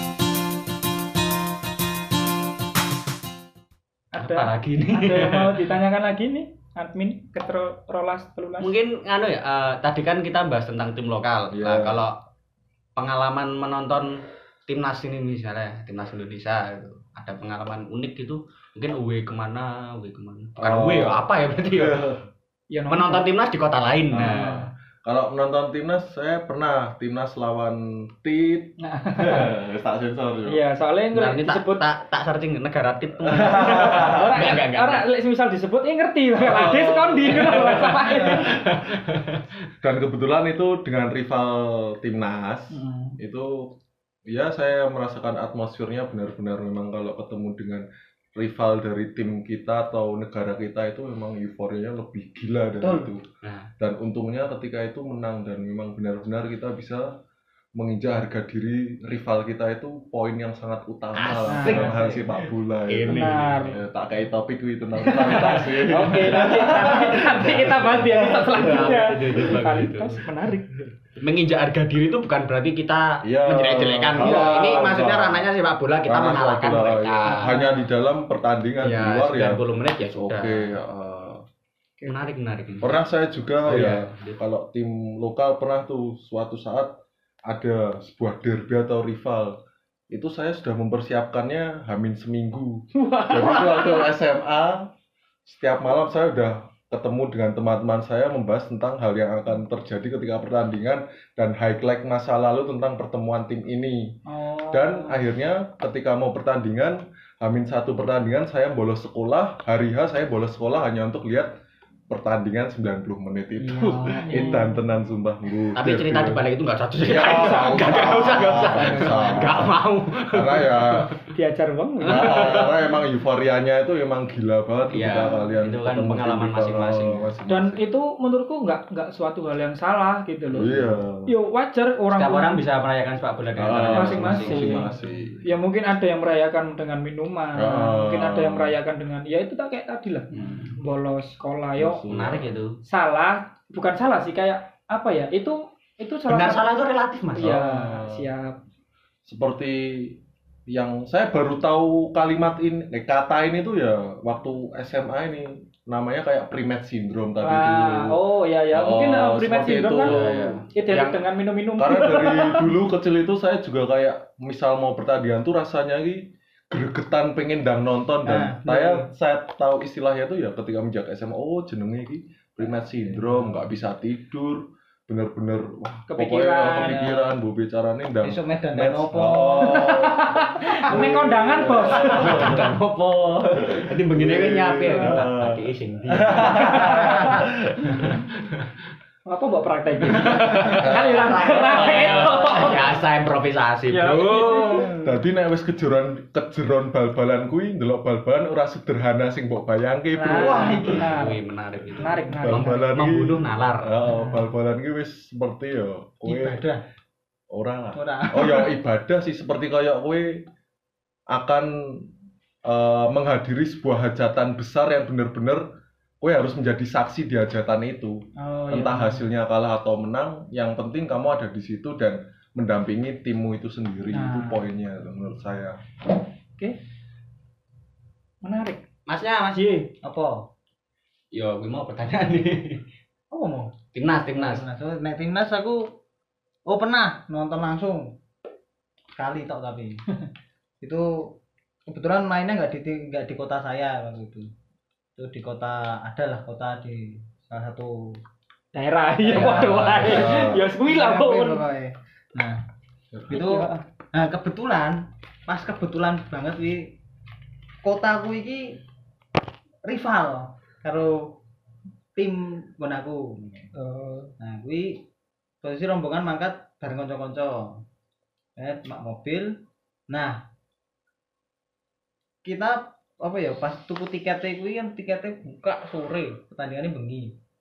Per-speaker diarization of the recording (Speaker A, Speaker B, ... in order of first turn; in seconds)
Speaker A: 4.1-5.8, 8.6-12.2, 13.0-22.0, 22.9-24.6, 31.1-35.1, 37.3-39.4, 53.4-53.7, 61.1-63.8, 65.2-66.5, 67.1-70.3, 71.2-77.6, 78.8-80.7, 82.1-83.1, 83.6-84.4, 115.8-121.2, 122.1-122.8, 124.9-127.3, 130.5-130.9, 132.1-134.9, 140.3-140.7, 142.1-142.8, 146.3-147.5, 160.0-161.1, 182.1-188.6, 190.1-194.9, 200.9-203.9, 229.1-229.8, 231.3-232.8, 233.9-234.6
Speaker B: 4.1-8.8, 22.7-23.3, 24.2-24.7, 28.8-29.5, 30.5-31.9, 33.5-38.6, 42.8-43.1, 61.5-62.0, 63.1-63.8, 65.0-70.8, 74.2-74.9, 77.5-77.9, 93.0-94.1, 104.3-105.2, 113.8-114.8, 118.7-119.2, 121.3-122.7, 127.5-130.7, 131.3-132.7, 133.9-134.9, 135.4-142.1, 142.8-146.7, 147.3-148.6, 157.4-162.7, 176.1-177.2, 179.7-182.6, 187.2-187.4, 189.2-193.0, 193.9-195.1, 200.2-201.4, 202.0-202.9, 218.4-219.2, 224.1-224.6, 228.4-228.8, 229.5-229.9, 248.7-251.6, 253.3-253.8, 263.8-264.3
Speaker C: 11.5-12.1, 20.6-22.3, 24.1-30.6, 33.3-34.3, 36.4-38.5, 39.8-43.8, 44.3-53.2, 53.8-57.1, 57.8-69.0, 73.2-75.5, 76.0-79.6, 80.1-81.4, 82.8-86.9, 87.5-89.6, 90.1-94.9, 95.5-111.5, 112.1-116.4, 117.0-121.1, 122.0-127.8, 130.5-131.3, 133.6-135.5, 137.5-138.8, 141.8-142.5, 147.4-148.3, 149.2-150.2, 150.7-158.2, 158.7-161.1, 161.8-182.7, 183.7-187.9, 190.7-191.7, 194.9-201.0, 202.4-206.6, 207.5-210.4, 211.3-212.1, 212.7-215.6, 216.2-218.2, 218.7-225.8, 249.4-250.7, 253.1-253.4
Speaker D: 52.8-53.1, 168.2-169.0, 173.0-173.6, 176.7-177.2, 178.2-179.9, 200.3-201.1, 206.2-206.8, 207.9-208.7, 230.0-230.5, 233.3-233.8, 234.3-235.9, 236.7-238.2, 239.2-240.0, 240.8-241.3, 241.9-244.5, 245.2-248.1, 249.2-252.6, 253.3-257.0, 257.8-258.8, 259.9-261.4, 262.2-263.7, 264.4-265.0, 265.6-267.8, 268.6-269.5, 270.1-270.4, 272.4-277.3